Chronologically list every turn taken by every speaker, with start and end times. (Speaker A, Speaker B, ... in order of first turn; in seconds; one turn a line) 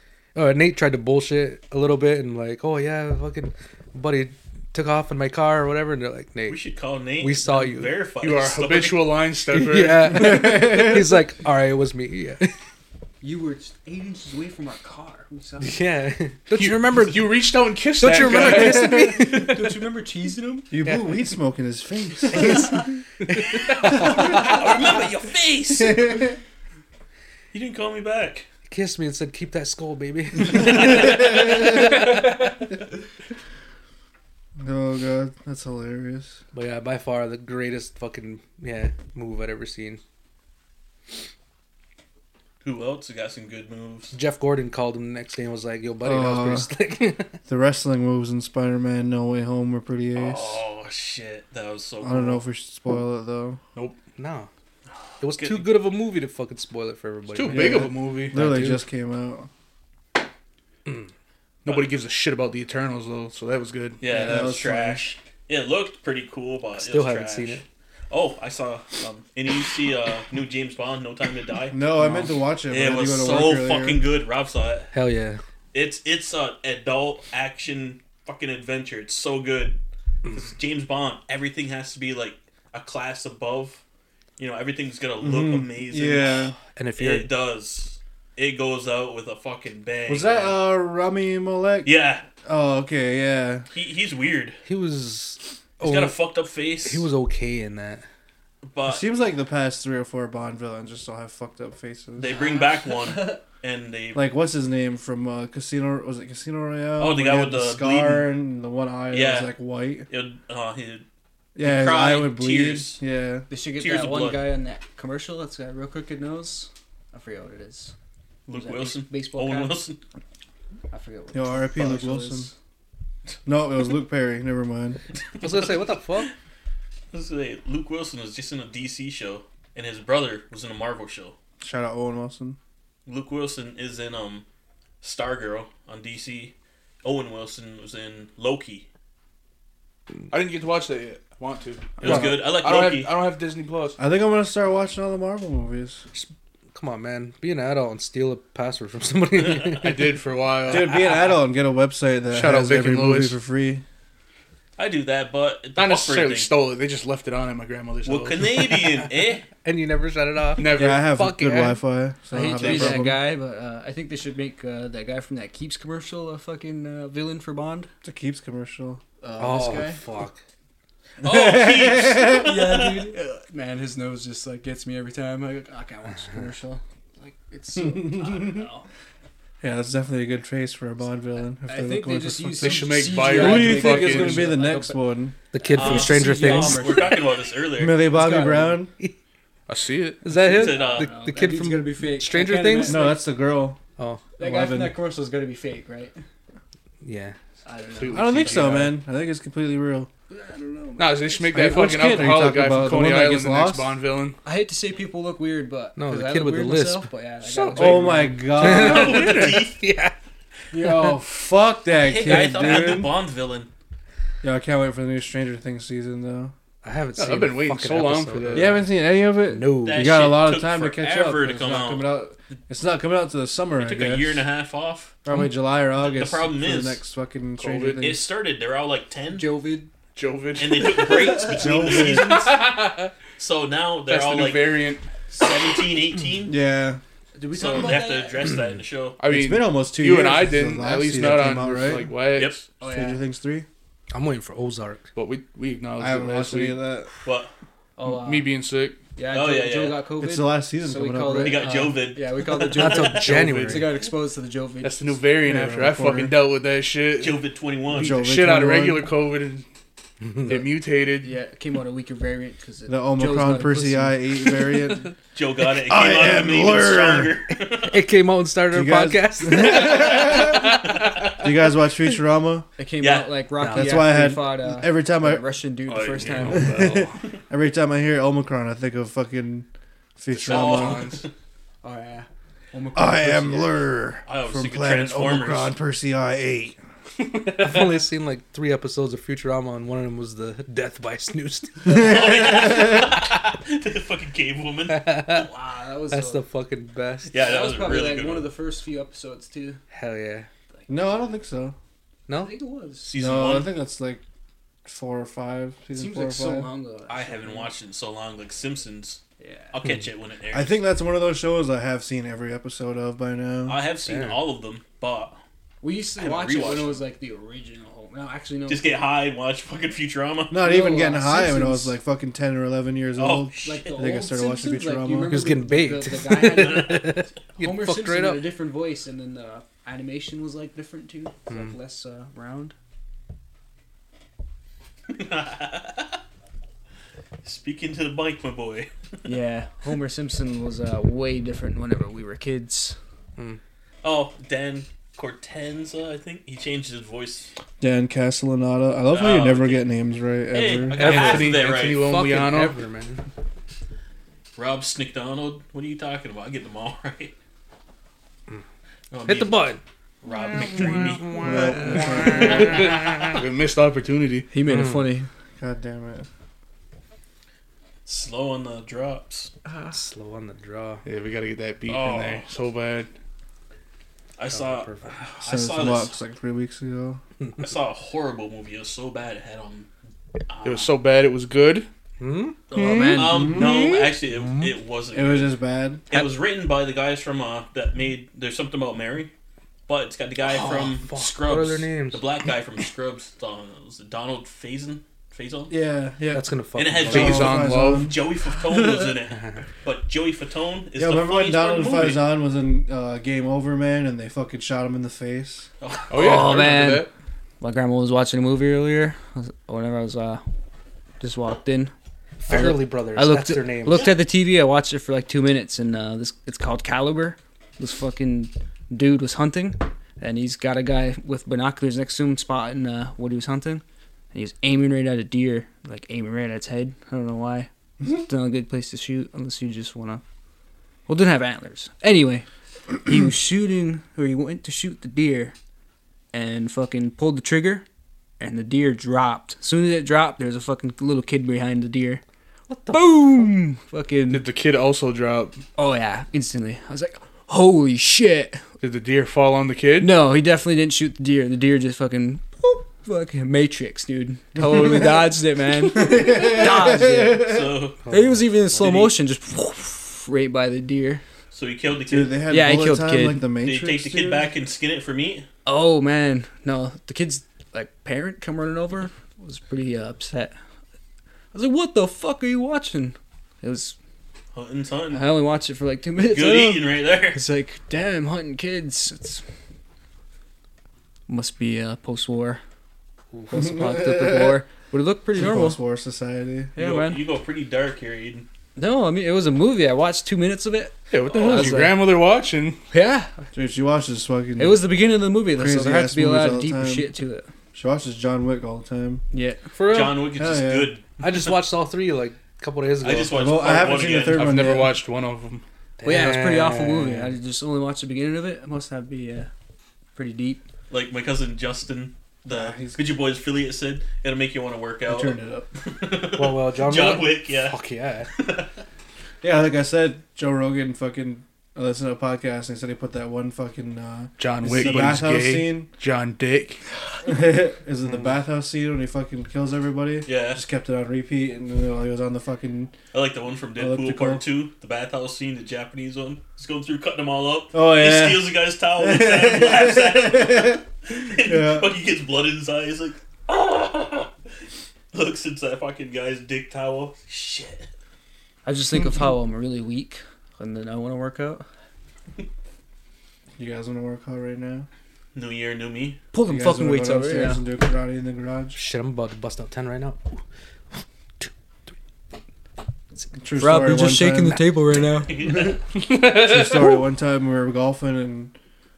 Speaker A: 0.3-6.6
Speaker B: 6.5-9.2
Speaker A: 7.2-8.1
Speaker C: 8.2-10.5
Speaker A: 9.5-12.5
Speaker D: 10.2-11.0
Speaker E: 13.2-15.8
Speaker A: 15.6-17.4
Speaker C: 16.6-19.1
Speaker A: 18.0-19.8
Speaker D: 18.4-19.4
Speaker E: 19.3-20.7
Speaker D: 20.7-22.8
Speaker A: 22.3-24.7
Speaker B: 23.5-26.2
Speaker D: 25.8-26.4
Speaker B: 27.5-28.5
Speaker A: 28.7-32.7
Speaker D: 31.1-31.6
Speaker D: 34.6-36.4
Speaker A: 36.5-40.0
Speaker B: 42.6-44.1
Speaker A: 44.1-47.4
Speaker D: 46.0-46.7
Speaker D: 47.5-50.6
Speaker B: 50.1-52.4
Speaker D: 52.0-53.6
Speaker C: 53.7-54.0
Speaker A: 54.2-54.5
Speaker A: 55.2-58.8
Speaker B: 55.2-55.7
Speaker C: 57.3-58.4
Speaker D: 57.5-59.5
Speaker C: 61.6-64.0
Speaker B: 61.7-61.9
Speaker B: 64.0-71.8
Speaker D: 64.1-65.1
Speaker A: 66.8-67.6
Speaker D: 71.7-74.0
Speaker A: 72.0-72.3
Speaker B: 72.7-74.9
Speaker A: 74.9-75.4
Speaker B: 75.7-79.8
Speaker B: 80.3-83.8
Speaker B: 84.4-90.6
Speaker D: 85.2-86.5
Speaker A: 86.7-87.3
Speaker D: 90.1-91.9
Speaker B: 91.8-92.3
Speaker D: 92.5-93.7
Speaker B: 93.7-94.6
Speaker A: 94.7-96.2
Speaker B: 95.8-97.1
Speaker A: 96.8-98.0
Speaker B: 98.7-99.1
Speaker D: 98.8-102.4
Speaker B: 102.2-104.3
Speaker E: 102.5-103.4
Speaker D: 104.1-110.1
Speaker B: 107.0-108.3
Speaker B: 109.1-109.5
Speaker B: 110.1-111.1
Speaker D: 111.5-113.5
Speaker B: 111.6-113.0
Speaker E: 113.5-118.0
Speaker B: 113.8-114.5
Speaker B: 118.5-120.0
Speaker E: 118.5-119.8
Speaker E: 120.9-122.5
Speaker D: 121.3-122.5
Speaker D: 123.5-125.0
Speaker A: 125.4-126.3
Speaker B: 127.1-131.4
Speaker D: 131.6-132.6
Speaker B: 133.1-134.4
Speaker B: 135.0-138.9
Speaker C: 140.3-144.0
Speaker B: 142.0-143.1
Speaker D: 142.0-142.4
Speaker D: 144.0-146.1
Speaker A: 146.1-150.1
Speaker C: 149.8-150.9
Speaker D: 150.7-153.8
Speaker A: 150.7-151.0
Speaker C: 152.3-153.4
Speaker B: 154.8-156.5
Speaker C: 155.8-158.7
Speaker B: 158.1-159.5
Speaker A: 159.5-161.8
Speaker C: 160.6-161.1
Speaker D: 160.7-163.2
Speaker E: 162.3-167.9
Speaker D: 168.0-169.0
Speaker E: 169.2-170.0
Speaker A: 169.4-170.4
Speaker B: 171.2-173.1
Speaker D: 171.2-172.5
Speaker E: 172.3-178.9
Speaker D: 177.8-178.7
Speaker D: 179.6-185.4
Speaker E: 181.6-185.0
Speaker C: 182.6-184.5
Speaker A: 185.5-187.0
Speaker E: 185.6-187.2
Speaker B: 185.7-188.0
Speaker D: 187.8-188.9
Speaker E: 188.1-188.8
Speaker C: 189.7-190.2
Speaker A: 190.2-193.1
Speaker E: 190.4-193.2
Speaker B: 190.4-191.1
Speaker D: 192.8-193.8
Speaker A: 194.0-194.3
Speaker E: 194.4-196.2
Speaker D: 194.4-194.9
Speaker A: 197.0-197.4
Speaker E: 197.6-198.4
Speaker C: 197.9-198.9
Speaker D: 198.1-200.1
Speaker E: 200.3-202.0
Speaker C: 201.0-204.4
Speaker D: 201.5-204.0
Speaker E: 204.4-208.3
Speaker A: 206.0-207.1
Speaker C: 207.4-209.6
Speaker D: 207.8-209.3
Speaker A: 208.5-210.1
Speaker B: 208.6-209.8
Speaker D: 210.7-213.1
Speaker E: 210.7-211.1
Speaker B: 211.9-213.7
Speaker E: 212.2-213.0
Speaker D: 214.4-216.5
Speaker A: 216.8-218.9
Speaker C: 217.2-218.8
Speaker D: 218.5-224.4
Speaker A: 219.5-220.4
Speaker B: 219.8-222.2
Speaker B: 223.8-225.2
Speaker D: 225.2-228.3
Speaker B: 226.0-227.0
Speaker C: 227.6-228.1
Speaker B: 228.0-229.5
Speaker E: 229.3-229.9
Speaker C: 230.1-233.1
Speaker B: 230.6-232.5
Speaker D: 231.4-232.4
Speaker B: 233.4-234.8
Speaker C: 234.1-235.1
Speaker B: 235.3-236.5
Speaker D: 236.5-237.0
Speaker E: 237.3-238.4
Speaker B: 237.5-239.2
Speaker C: 237.7-237.9
Speaker C: 239.2-242.7
Speaker D: 239.3-242.1
Speaker B: 242.3-242.6
Speaker E: 242.8-243.2
Speaker D: 242.8-243.7
Speaker A: 244.1-245.1
Speaker C: 245.1-246.8
Speaker D: 246.0-247.1
Speaker B: 247.2-247.5
Speaker E: 248.0-248.5
Speaker C: 248.0-249.0
Speaker E: 249.2-255.2
Speaker B: 249.3-250.0
Speaker D: 250.2-251.7
Speaker B: 251.4-253.4
Speaker A: 252.7-254.0
Speaker C: 254.8-259.7
Speaker D: 255.4-256.4
Speaker B: 257.2-258.2
Speaker D: 257.9-259.1
Speaker A: 260.2-260.7
Speaker C: 260.4-261.3
Speaker E: 261.2-264.6
Speaker D: 262.9-265.1
Speaker B: 265.3-268.0
Speaker D: 265.7-267.3
Speaker A: 267.9-271.3
Speaker D: 268.7-270.8
Speaker B: 270.9-271.3
Speaker D: 271.4-272.7
Speaker E: 272.8-276.8
Speaker B: 273.0-273.4
Speaker A: 273.6-274.2
Speaker D: 273.7-275.4
Speaker C: 275.9-277.1
Speaker B: 276.2-276.5
Speaker A: 276.5-277.1
Speaker D: 276.5-281.1
Speaker C: 280.3-281.2
Speaker B: 280.5-281.3
Speaker E: 281.8-283.8
Speaker D: 282.9-286.8
Speaker B: 284.3-285.8
Speaker A: 287.2-292.6
Speaker B: 291.9-295.1
Speaker D: 291.9-292.9
Speaker A: 294.9-295.5
Speaker E: 295.3-296.4
Speaker A: 296.1-297.4
Speaker B: 297.3-298.5
Speaker E: 297.4-299.8
Speaker A: 299.9-300.5
Speaker E: 300.7-301.4
Speaker D: 300.9-301.8
Speaker A: 302.3-302.5
Speaker E: 302.3-303.1
Speaker B: 303.1-303.8
Speaker D: 303.2-304.2
Speaker D: 304.9-306.7
Speaker E: 305.9-307.7
Speaker B: 307.1-309.2
Speaker E: 309.4-309.8
Speaker B: 309.7-310.8
Speaker D: 310.5-313.8
Speaker B: 313.7-315.4
Speaker A: 314.1-314.4
Speaker E: 315.8-318.9
Speaker B: 316.2-317.0
Speaker B: 318.7-320.6
Speaker D: 320.5-325.3
Speaker E: 320.6-321.9
Speaker B: 323.2-324.0
Speaker E: 323.6-327.1
Speaker A: 325.3-328.5
Speaker B: 326.6-327.2
Speaker E: 327.6-332.7
Speaker A: 331.5-331.8
Speaker B: 335.1-336.2
Speaker B: 337.4-338.9
Speaker E: 339.2-343.0
Speaker B: 344.0-347.5
Speaker D: 347.8-351.1
Speaker B: 349.1-349.9
Speaker B: 350.5-352.0
Speaker A: 350.9-353.2
Speaker C: 351.0-352.8
Speaker B: 354.6-357.3
Speaker B: 359.1-359.6
Speaker A: 359.2-359.8
Speaker B: 360.2-362.6
Speaker A: 360.5-363.4
Speaker D: 361.4-362.7
Speaker C: 362.6-364.5
Speaker E: 364.5-365.3
Speaker A: 364.7-365.1
Speaker D: 365.6-366.3
Speaker B: 368.1-369.5
Speaker E: 369.7-369.9
Speaker A: 369.9-371.0
Speaker C: 371.1-373.1
Speaker B: 371.9-372.4
Speaker B: 374.4-376.1
Speaker A: 374.5-375.1
Speaker D: 375.4-377.2
Speaker B: 377.6-379.9
Speaker B: 380.5-380.9
Speaker C: 380.6-381.9
Speaker A: 382.2-384.7
Speaker B: 382.7-385.6
Speaker E: 382.7-383.6
Speaker D: 383.2-383.7
Speaker D: 385.1-386.2
Speaker B: 386.1-389.3
Speaker B: 389.9-395.7
Speaker A: 390.4-392.3
Speaker D: 395.7-396.5
Speaker A: 396.3-397.6
Speaker B: 396.7-402.3
Speaker D: 397.1-398.2
Speaker C: 397.1-398.1
Speaker A: 399.3-399.6
Speaker D: 400.9-405.7
Speaker B: 405.8-406.6
Speaker C: 406.1-407.1
Speaker E: 406.1-407.1
Speaker E: 407.6-410.4
Speaker E: 411.2-411.9
Speaker A: 412.4-414.2
Speaker E: 412.4-430.2
Speaker E: 431.1-432.4
Speaker E: 433.0-435.6
Speaker E: 436.3-437.9
Speaker E: 438.4-442.2
Speaker A: 442.7-443.5
Speaker E: 442.9-444.4
Speaker C: 444.3-445.6
Speaker E: 445.8-448.6
Speaker C: 448.8-450.1
Speaker E: 450.0-457.5
Speaker D: 454.6-455.2
Speaker D: 455.9-457.7
Speaker B: 457.4-458.0
Speaker A: 458.0-459.1
Speaker E: 458.1-461.2
Speaker B: 461.5-462.4
Speaker D: 462.1-464.5
Speaker E: 462.5-463.4
Speaker B: 463.6-465.5
Speaker E: 465.7-470.6
Speaker E: 471.5-473.9
Speaker B: 474.5-475.3
Speaker E: 475.1-479.4
Speaker B: 476.3-477.4
Speaker E: 481.3-482.6
Speaker A: 483.3-483.7
Speaker E: 483.5-485.8
Speaker D: 483.6-484.6
Speaker D: 485.4-486.7
Speaker E: 486.7-487.2
Speaker B: 486.8-488.5
Speaker E: 488.8-492.0
Speaker C: 491.1-492.8
Speaker E: 492.9-493.4
Speaker D: 493.5-494.8
Speaker E: 494.6-497.5
Speaker D: 495.5-497.1
Speaker D: 497.7-499.2
Speaker E: 499.3-499.6
Speaker C: 499.7-500.2
Speaker B: 499.9-501.2
Speaker D: 500.4-500.9
Speaker A: 501.2-503.6
Speaker B: 503.0-504.7
Speaker D: 503.3-505.0
Speaker C: 504.3-505.6
Speaker A: 506.0-507.3
Speaker E: 506.0-509.5
Speaker E: 510.1-510.6
Speaker B: 510.9-517.8
Speaker D: 512.5-513.0
Speaker D: 515.1-515.7
Speaker A: 516.4-518.3
Speaker B: 518.4-518.7
Speaker D: 519.4-525.9
Speaker C: 524.4-526.8
Speaker B: 524.6-525.2
Speaker D: 527.2-532.9
Speaker B: 530.3-530.6
Speaker B: 533.1-544.3
Speaker D: 533.8-534.4
Speaker D: 537.7-540.8
Speaker D: 541.4-542.0
Speaker B: 545.1-547.9
Speaker E: 548.6-551.7
Speaker D: 553.6-554.9
Speaker B: 555.4-556.2
Speaker E: 556.3-557.6
Speaker D: 556.5-558.8
Speaker A: 558.7-560.4
Speaker D: 563.4-564.6
Speaker E: 563.6-565.3
Speaker B: 565.3-565.8
Speaker A: 566.0-566.8
Speaker D: 566.4-568.5